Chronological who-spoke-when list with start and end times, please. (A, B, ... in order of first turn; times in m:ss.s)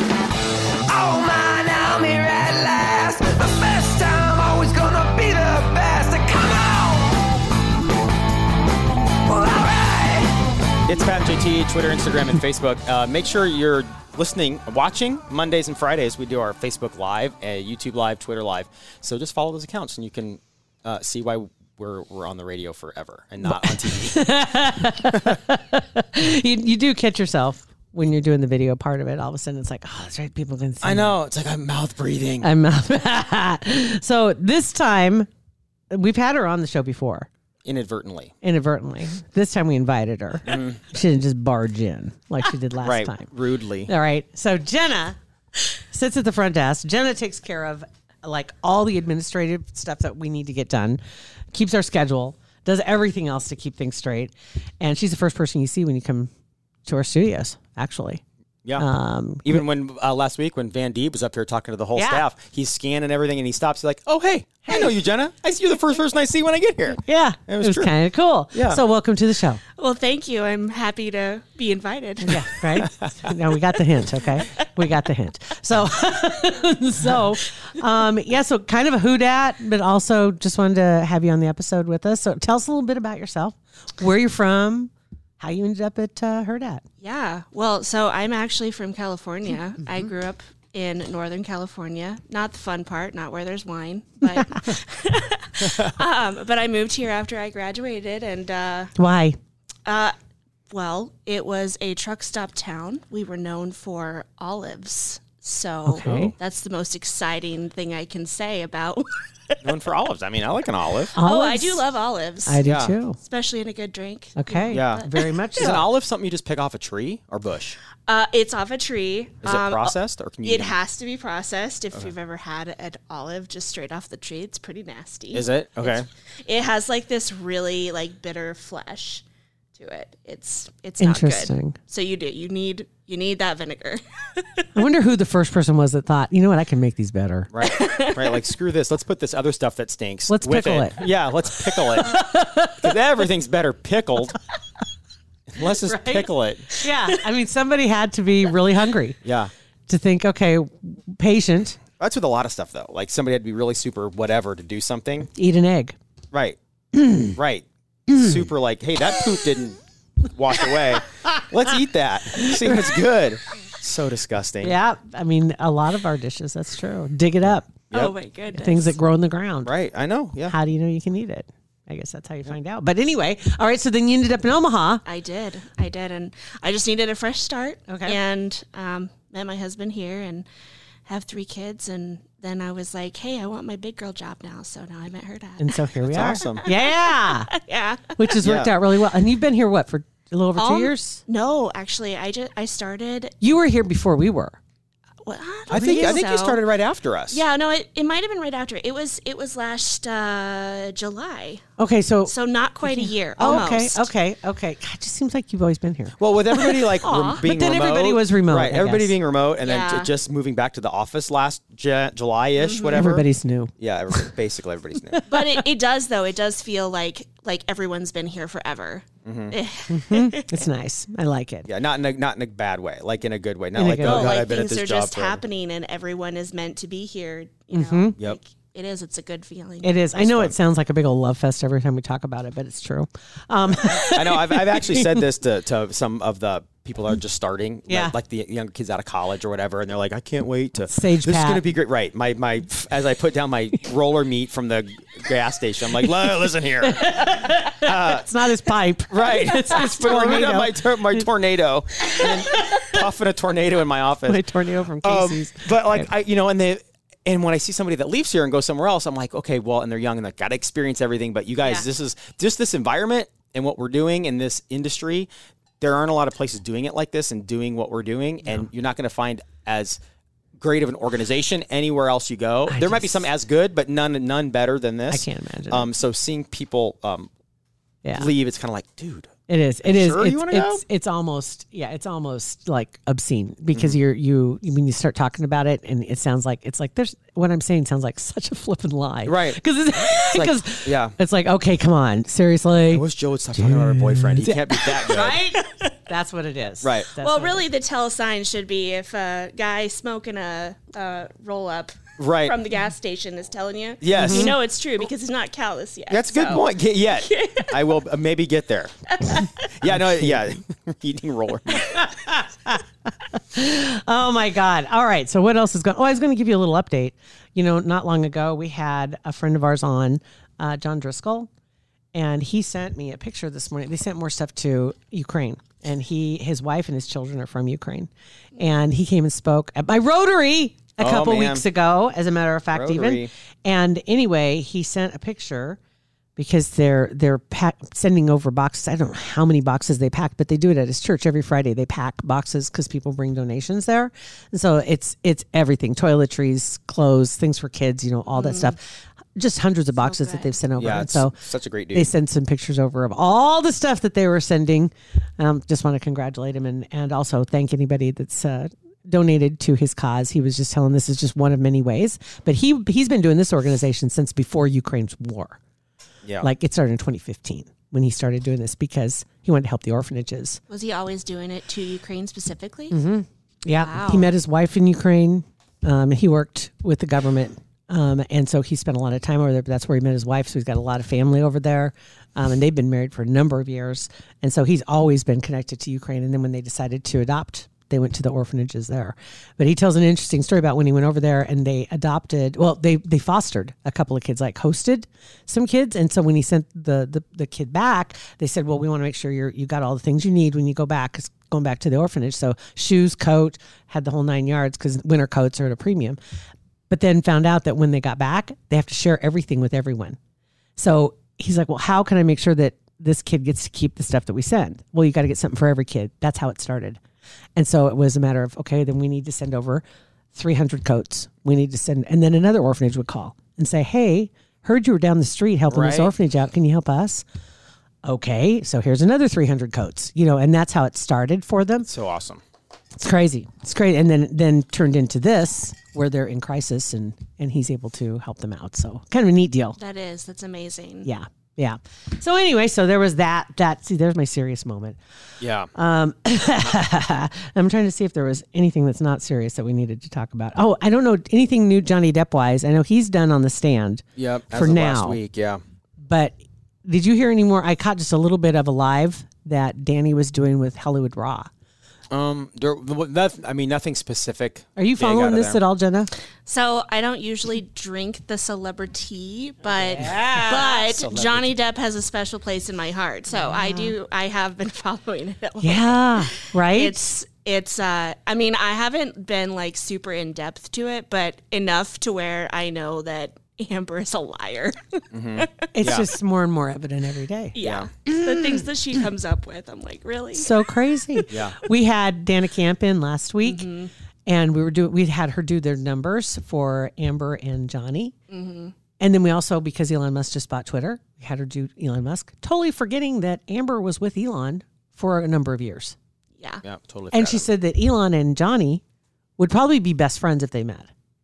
0:01.1-0:06.2 A
0:10.9-0:24.4 B
0:23.4-0:31.2 C
0:30.8-0:32.5 B
0:32.4-0:35.3 C
0:35.9-0:37.3 C
0:37.6-0:38.3 B
0:38.4-0:43.3 C
0:40.5-0:40.8 B
0:42.8-0:43.9 B
0:43.8-0:45.2 C
0:45.9-0:51.0 C
0:51.5-0:56.3 C
0:56.8-0:58.2 C
0:58.8-0:59.6 C
0:59.4-1:07.9 B
1:02.0-1:02.3 C
1:04.7-1:05.0 C
1:07.0-1:09.6 C
1:08.5-1:08.8 B
1:09.8-1:12.6 D
1:12.2-1:26.8 C
1:12.8-1:13.1 B
1:27.0-1:38.9 D
1:39.0-1:39.4 C
1:39.9-1:40.1 D
1:40.7-1:49.7 D
1:45.9-1:46.3 C
1:46.0-1:46.4 B
1:49.6-1:51.1 B
1:51.1-1:51.8 C
1:51.2-1:52.6 D
1:52.4-1:53.2 C
1:52.6-1:53.0 B
1:53.2-1:55.8 D
1:54.4-1:55.8 C
1:54.7-1:57.8 B
1:58.1-2:09.2 D
1:59.4-2:00.8 B
2:05.3-2:06.1 B
2:09.8-2:14.7 D
2:11.0-2:11.8 C
2:14.8-2:17.5 C
2:17.5-2:24.4 B
2:17.6-2:18.4 D
2:20.3-2:21.1 C
2:22.0-2:22.9 C
2:25.5-2:26.7 B
2:25.7-2:29.2 C
2:29.2-2:29.5 B
2:29.9-2:31.8 C
2:32.0-2:35.3 B
2:35.3-2:36.0 C
2:36.3-2:36.6 B
2:37.0-2:37.3 C
2:37.2-2:44.8 B
2:38.1-2:38.5 C
2:42.3-2:43.0 C
2:44.6-2:47.8 C
2:47.9-2:49.0 D
2:48.5-2:49.7 C
2:49.6-2:50.6 B
2:50.4-2:55.0 C
2:55.0-3:00.5 D
2:57.9-2:58.2 C
3:01.1-3:08.4 D
3:05.6-3:07.5 C
3:06.1-3:06.6 B
3:08.2-3:11.2 C
3:08.4-3:08.7 B
3:10.6-3:13.4 D
3:13.4-3:14.6 C
3:15.2-3:16.6 D
3:15.7-3:17.4 B
3:15.7-3:16.2 C
3:17.3-3:21.6 D
3:21.8-3:29.2 C
3:22.3-3:24.1 D
3:26.2-3:33.3 B
3:27.0-3:27.4 D
3:29.6-3:30.1 D
3:32.6-3:33.0 D
3:32.9-3:34.3 C
3:33.8-3:35.3 B
3:35.1-3:35.4 C
3:35.3-3:40.7 D
3:39.2-3:39.6 B
3:39.9-3:41.7 C
3:41.7-3:45.4 B
3:43.8-3:44.4 C
3:44.0-3:50.0 D
3:47.7-3:48.2 C
3:49.8-3:55.2 C
3:50.1-3:50.6 B
3:53.7-4:08.3 B
3:57.9-3:58.2 C
4:00.9-4:01.7 C
4:06.8-4:11.3 C
4:09.1-4:14.4 B
4:09.8-4:10.2 D
4:14.3-4:16.1 C
4:15.0-4:25.3 B
4:25.8-4:30.0 B
4:30.6-4:37.3 B
4:32.7-4:33.3 C
4:35.1-4:35.9 C
4:38.0-4:38.3 C
4:38.1-4:39.3 B
4:39.5-4:53.0 C
4:39.8-4:40.8 B
4:43.7-4:44.0 B
4:49.3-4:51.2 B
4:52.9-4:55.4 B
4:53.6-4:57.6 C
4:55.5-4:55.9 D
4:56.8-4:57.1 B
4:57.2-5:08.0 D
5:02.2-5:02.6 B
5:04.0-5:04.5 B
5:04.1-5:04.5 C
5:06.1-5:08.9 B
5:09.1-5:09.7 D
5:09.8-5:12.0 B
5:10.0-5:10.3 C
5:11.8-5:12.8 C
5:13.5-5:21.5 C
5:22.1-5:35.8 C
5:31.0-5:31.6 B
5:32.7-5:33.3 B
5:36.4-5:48.8 C
5:48.3-5:48.8 D
5:49.4-5:51.4 C
5:50.0-5:50.5 D
5:50.8-5:52.1 B
5:51.9-6:05.6 C
6:06.4-6:10.6 C
6:10.7-6:13.0 D
6:12.9-6:46.2 C
6:13.8-6:14.3 D
6:46.9-6:50.2 C
6:50.8-6:57.0 C
6:57.6-7:07.2 C
7:05.7-7:06.1 B
7:08.0-7:11.9 C
7:11.8-7:12.4 B
7:13.0-7:19.8 C
7:19.8-7:21.1 D
7:21.0-7:25.0 C
7:25.4-7:25.7 B
7:25.7-7:35.2 C
7:34.2-7:35.6 B
7:36.0-7:41.5 C
7:42.1-7:45.6 B
7:44.8-7:46.1 C
7:46.4-8:05.6 D
7:49.8-7:50.8 C
7:50.7-7:51.5 B
7:53.4-7:53.9 C
7:55.6-7:57.0 C
8:05.1-8:06.1 B
8:05.7-8:07.6 C
8:07.6-8:10.6 D
8:07.6-8:07.9 B
8:10.3-8:13.7 C
8:11.3-8:11.6 B
8:13.4-8:13.9 D
8:14.3-8:18.2 C
8:18.3-8:18.7 D
8:19.0-8:26.0 C
8:26.4-8:26.6 D
8:26.6-8:27.5 B
8:27.1-8:28.8 C
8:29.4-8:30.9 C